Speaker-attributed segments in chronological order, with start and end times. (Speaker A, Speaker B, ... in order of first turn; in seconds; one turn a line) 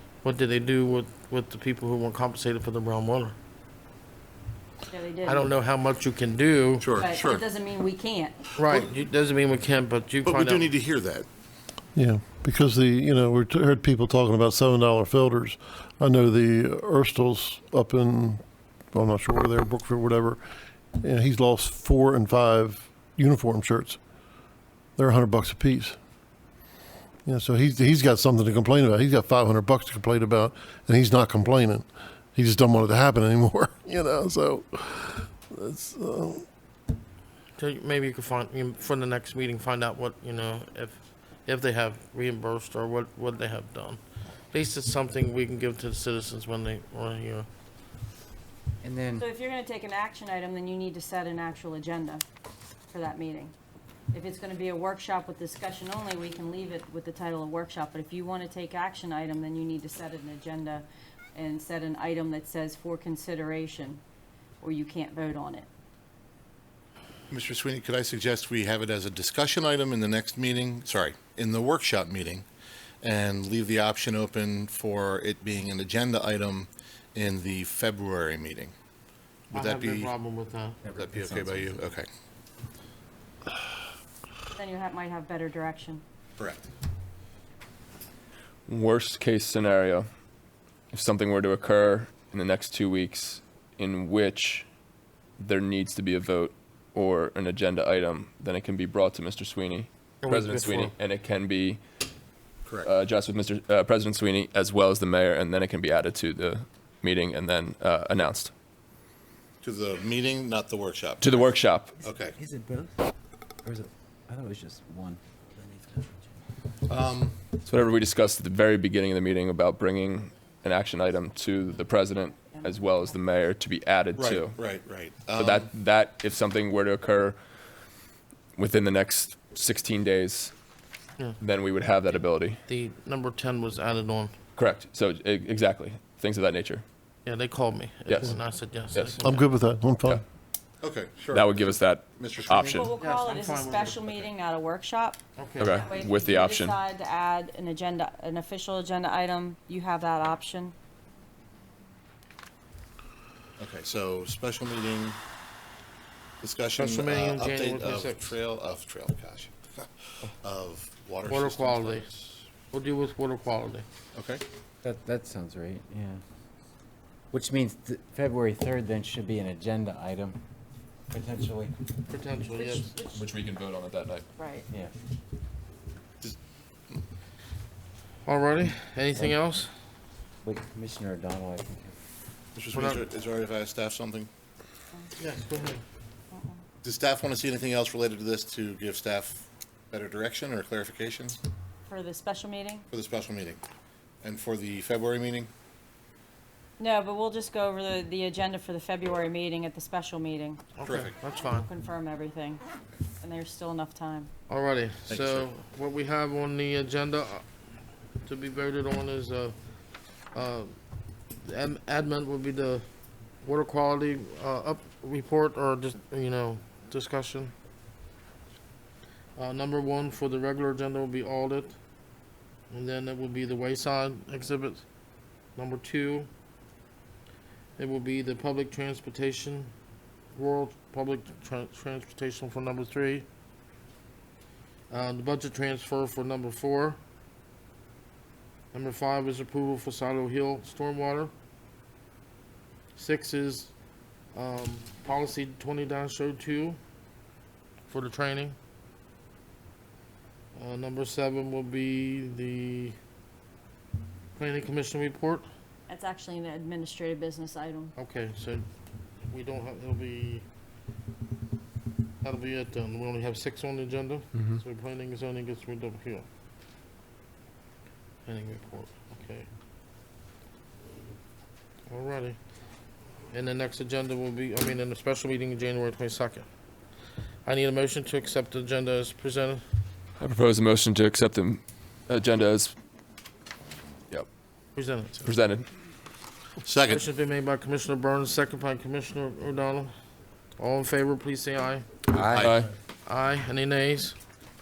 Speaker A: 0.2-3.4
Speaker B: 4.9-5.5
Speaker A: 5.2-6.9
Speaker C: 6.8-7.5
Speaker B: 6.9-8.4
Speaker A: 8.6-10.7
Speaker C: 10.2-11.3
Speaker D: 11.9-20.4
Speaker D: 21.0-24.0
Speaker D: 25.0-26.0
Speaker D: 27.2-36.5
Speaker A: 37.6-47.5
Speaker E: 48.8-49.3
Speaker B: 49.2-52.2
Speaker B: 52.9-53.5
Speaker B: 54.1-64.0
Speaker B: 64.6-65.7
Speaker C: 67.3-72.5
Speaker C: 73.0-78.7
Speaker C: 79.5-80.1
Speaker A: 79.5-80.8
Speaker E: 80.8-81.9
Speaker C: 80.9-82.1
Speaker B: 84.5-86.0
Speaker C: 86.4-86.7
Speaker F: 88.7-90.1
Speaker F: 90.9-94.7
Speaker F: 95.4-101.8
Speaker A: 100.2-100.9
Speaker C: 102.7-102.9
Speaker F: 102.8-108.5
Speaker C: 109.6-112.4
Speaker F: 111.2-111.9
Speaker E: 112.3-112.9
Speaker E: 113.6-115.2
Speaker C: 116.9-117.4
Speaker F: 117.7-124.6
Speaker B: 122.4-123.1
Speaker C: 124.2-125.7
Speaker F: 125.3-127.4
Speaker F: 128.6-130.5
Speaker F: 131.4-132.6
Speaker A: 132.7-134.3
Speaker F: 134.6-136.8
Speaker A: 137.3-139.4
Speaker F: 138.1-138.3
Speaker F: 138.9-139.2
Speaker D: 139.2-140.2
Speaker C: 140.8-142.9
Speaker F: 141.3-142.9
Speaker B: 142.7-145.2
Speaker A: 143.0-144.3
Speaker A: 145.4-145.8
Speaker F: 145.6-146.8
Speaker B: 145.8-150.8
Speaker C: 153.6-155.2
Speaker C: 156.4-162.5
Speaker A: 156.8-158.3
Speaker A: 161.3-162.1
Speaker A: 162.7-163.9
Speaker C: 164.1-164.4
Speaker E: 164.8-166.2
Speaker E: 167.3-170.4
Speaker E: 171.1-171.8
Speaker A: 172.1-172.9
Speaker B: 172.5-173.2
Speaker F: 173.1-174.3
Speaker B: 174.4-174.7
Speaker A: 178.2-179.7
Speaker E: 180.4-182.0
Speaker C: 182.6-184.3
Speaker A: 182.7-183.0
Speaker A: 185.2-185.8
Speaker B: 186.3-186.6
Speaker C: 186.8-191.4
Speaker B: 191.9-192.9
Speaker C: 192.9-193.6
Speaker C: 194.2-195.5
Speaker B: 196.8-200.8
Speaker A: 200.8-201.7
Speaker C: 200.8-201.1
Speaker B: 201.4-202.6
Speaker B: 203.2-204.3
Speaker A: 204.5-207.5
Speaker C: 205.1-205.5
Speaker A: 208.2-209.6
Speaker A: 210.3-210.8
Speaker A: 211.4-212.8
Speaker A: 213.4-217.5
Speaker A: 219.4-221.8
Speaker A: 222.7-224.8
Speaker A: 225.6-226.3
Speaker A: 227.8-229.7
Speaker A: 230.3-233.3
Speaker A: 234.9-237.0
Speaker A: 238.7-241.3
Speaker A: 242.9-243.7
Speaker A: 244.3-246.8
Speaker A: 247.9-248.6
Speaker A: 250.6-253.0
Speaker A: 254.4-255.5
Speaker B: 255.9-258.0
Speaker A: 258.0-258.7
Speaker A: 259.3-260.4
Speaker A: 262.2-266.3
Speaker F: 264.3-264.6
Speaker A: 268.3-269.5
Speaker A: 271.9-272.4
Speaker A: 273.3-276.5
Speaker A: 277.4-279.6
Speaker F: 280.2-282.7
Speaker A: 284.8-285.2
Speaker F: 285.2-285.7
Speaker C: 286.6-287.0
Speaker A: 286.9-289.9
Speaker A: 290.6-291.9
Speaker C: 292.1-292.6
Speaker F: 292.4-292.7
Speaker A: 293.1-294.2